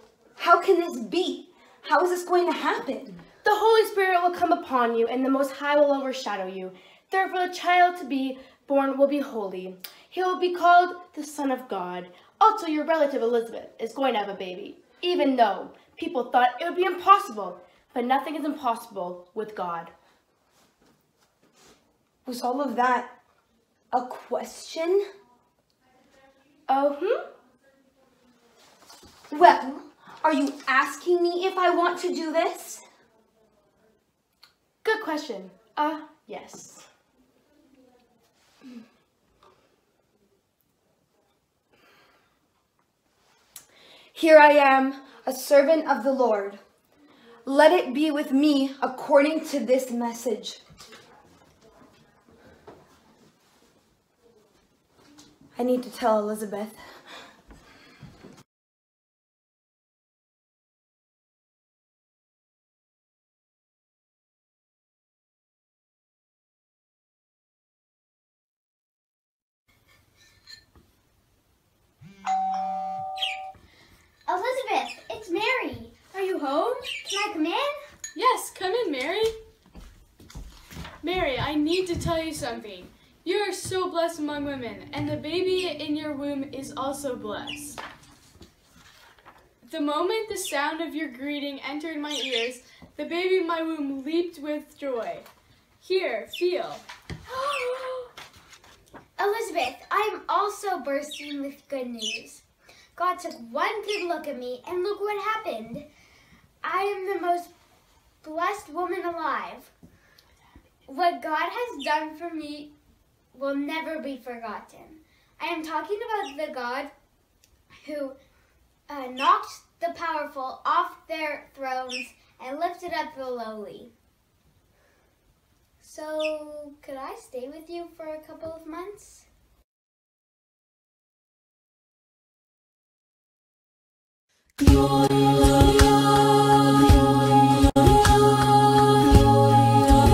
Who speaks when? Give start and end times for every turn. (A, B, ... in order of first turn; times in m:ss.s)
0:00.4-0:03.2 A
0:03.4-0:19.9 B
0:22.2-0:23.2 A
0:23.9-0:25.0 A
0:26.7-0:27.3 B
0:29.3-0:32.8 A
0:34.8-0:36.9 B
0:44.1-0:46.6 A
0:47.4-0:50.6 A
0:55.5-0:57.0 A
1:14.3-1:17.8 C
1:18.1-1:19.3 D
1:21.0-1:27.8 D
1:29.6-1:35.3 D
1:35.8-1:36.8 D
1:37.3-1:38.1 C
1:39.2-1:42.4 C
1:43.0-1:45.8 C
1:46.6-1:47.5 C
1:48.2-1:49.7 C
1:50.8-1:52.7 C
1:53.3-1:56.9 C
1:57.8-1:58.2 C
1:58.9-2:03.9 C
2:05.8-2:09.3 C